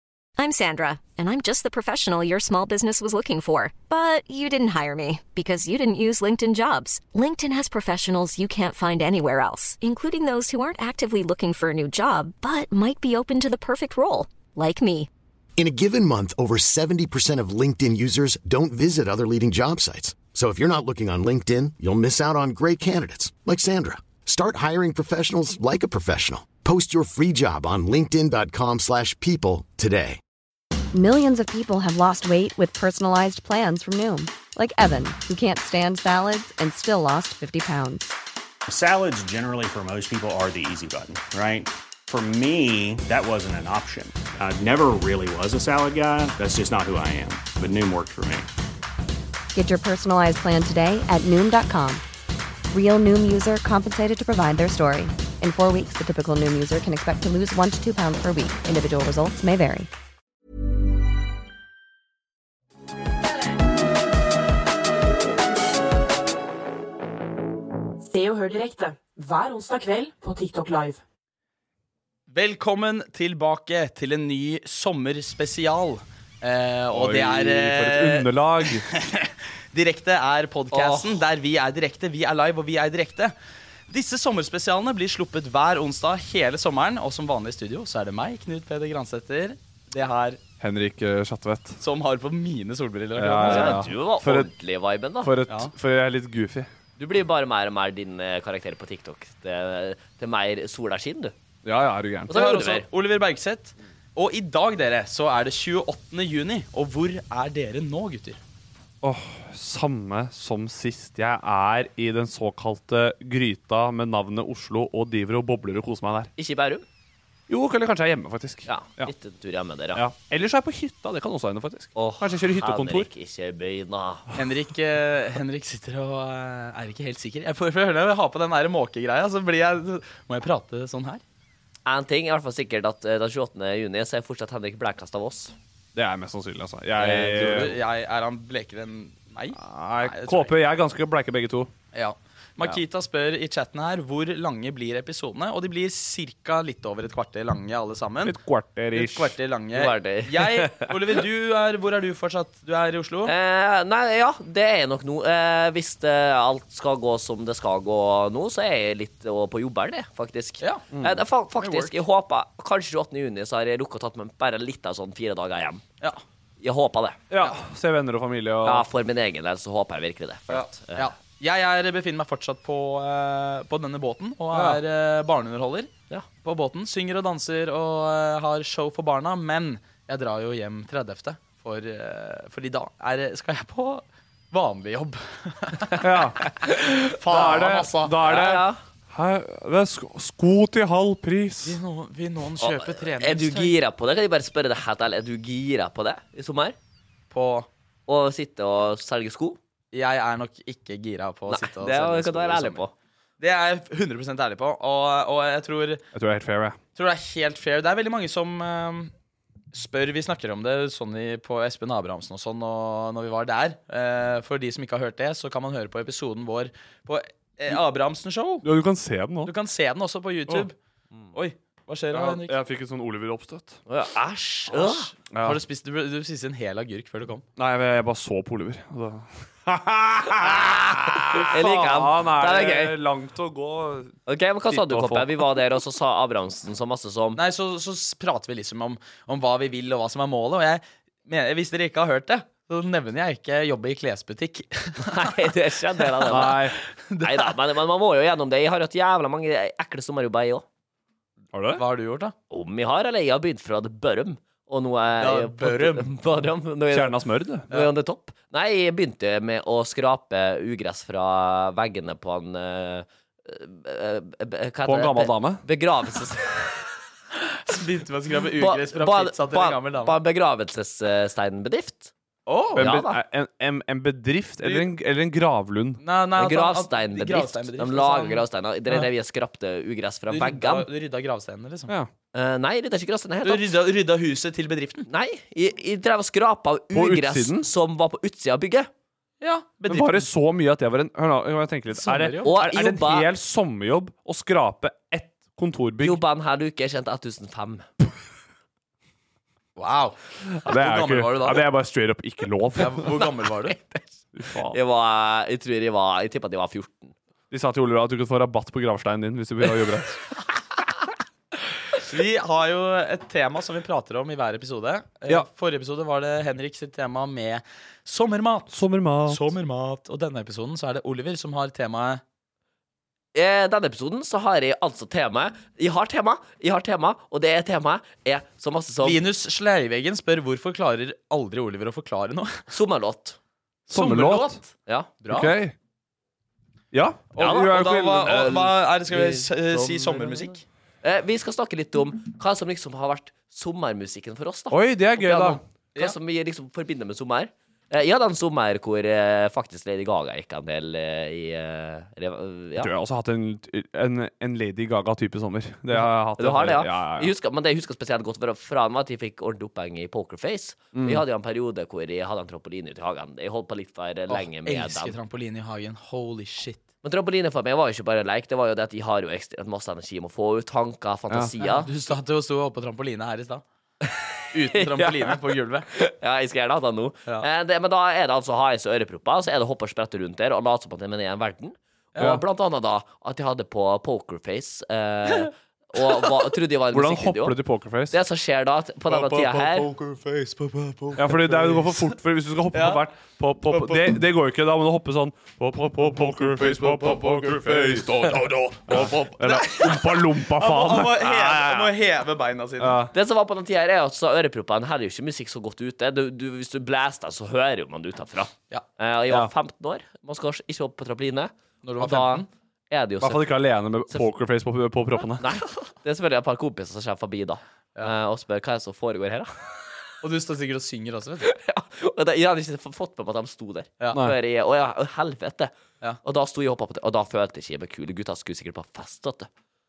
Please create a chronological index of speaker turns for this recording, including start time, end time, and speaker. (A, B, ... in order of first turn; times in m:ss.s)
0:00.4-0:15.1 A
0:15.6-0:30.2 B
0:30.9-0:38.1 C
0:38.7-0:48.5 D
0:49.5-0:52.0 C
0:52.7-0:59.9 C
1:08.0-1:11.0 E
1:12.3-1:23.3 F
1:16.9-1:18.9 G
1:20.7-1:21.2 H
1:23.9-1:30.4 F
1:30.6-1:31.8 G
1:31.8-1:33.8 F
1:33.1-1:34.5 G
1:33.4-1:35.3 H
1:35.2-1:36.7 G
1:37.0-1:41.3 H
1:41.6-1:42.3 G
1:42.3-1:42.9 H
1:42.3-1:48.4 F
1:49.0-1:56.3 G
1:56.4-1:56.8 H
1:57.5-1:59.1 G
1:58.7-2:00.0 H
1:59.9-2:03.1 G
2:01.9-2:04.2 H
2:04.3-2:11.2 F
2:11.8-2:15.5 H
2:15.9-2:17.8 G
2:17.0-2:20.5 F
2:19.5-2:21.7 G
2:21.9-2:28.3 F
2:28.2-2:29.4 G
2:28.9-2:33.3 F
2:29.7-2:30.9 H
2:33.2-2:45.8 H
2:40.9-2:41.2 G
2:41.6-2:42.0 F
2:46.6-2:47.2 H
2:47.3-2:48.9 G
2:48.6-2:51.1 H
2:50.5-2:55.9 F
2:54.5-2:54.8 G
2:56.4-3:06.0 F
3:06.0-3:11.8 G
3:06.7-3:08.1 F
3:08.2-3:08.8 H
3:11.6-3:13.7 F
3:12.6-3:16.8 H
3:17.3-3:17.7 F
3:18.1-3:19.6 H
3:19.9-3:22.8 F
3:21.5-3:22.9 H
3:23.4-3:26.0 F
3:26.1-3:26.8 G
3:27.0-3:29.1 F
3:29.7-3:38.6 F
3:38.6-3:39.5 G
3:39.4-3:40.7 F
3:41.3-3:42.6 F
3:42.1-3:43.8 G
3:43.9-3:45.1 H
3:44.7-3:47.4 F
3:45.3-3:45.6 G
3:47.6-3:54.2 G
3:50.5-3:50.7 H
3:51.5-3:52.9 H
3:54.2-3:57.4 H
3:54.7-3:55.3 G
3:57.3-4:05.3 F
4:05.0-4:06.6 H
4:06.2-4:07.5 F
4:06.3-4:06.8 G
4:07.2-4:10.6 H
4:11.5-4:11.8 G
4:11.7-4:12.3 F
4:12.5-4:17.2 H
4:15.2-4:16.1 F
4:16.9-4:17.7 G
4:17.7-4:26.7 H
4:24.8-4:25.6 G
4:27.6-4:30.1 F
4:28.6-4:32.1 H
4:32.4-4:32.8 F
4:32.7-4:33.2 H
4:32.8-4:36.0 G
4:36.0-4:39.1 F
4:36.4-4:40.9 H
4:40.3-4:41.9 F
4:42.3-4:43.7 H
4:43.4-4:45.1 F
4:45.1-4:48.9 H
4:46.9-4:47.6 G
4:49.4-4:50.3 F
4:49.9-4:56.2 G
4:51.9-4:52.5 F
4:52.4-4:53.3 H
4:56.0-4:57.9 H
4:59.8-5:01.6 F
5:00.5-5:03.3 G
5:02.8-5:03.8 F
5:04.3-5:04.8 G
5:04.7-5:07.1 H
5:07.5-5:10.2 G
5:12.0-5:22.2 F
5:18.7-5:19.4 G
5:23.3-5:29.2 H
5:29.0-5:32.6 F
5:32.7-5:33.4 H
5:33.9-5:34.6 G
5:33.9-5:34.7 F
5:34.8-5:35.1 H
5:35.2-5:35.5 F
5:35.3-5:35.7 G
5:36.9-5:38.7 G
5:37.4-5:40.6 F
5:37.4-5:37.7 H
5:39.1-5:40.3 H
5:41.0-5:52.9 H
5:44.7-5:45.6 G
5:52.8-5:57.3 G
5:56.4-6:05.2 H
6:00.9-6:01.2 G
6:04.3-6:06.8 F
6:07.0-6:11.9 H
6:11.6-6:13.6 F
6:14.0-6:15.4 H
6:14.5-6:15.8 F
6:15.9-6:27.6 H
6:26.9-6:28.2 G
6:28.1-6:29.9 H
6:29.1-6:32.1 F
6:31.2-6:41.9 G
6:32.7-6:33.0 F
6:33.7-6:34.2 F
6:36.1-6:43.1 F
6:42.8-6:43.1 G
6:43.1-6:53.5 H
6:51.8-6:52.5 F
6:53.2-6:55.4 G
6:55.4-6:59.7 H
7:00.2-7:01.5 F
7:01.4-7:05.7 H
7:06.2-7:09.5 H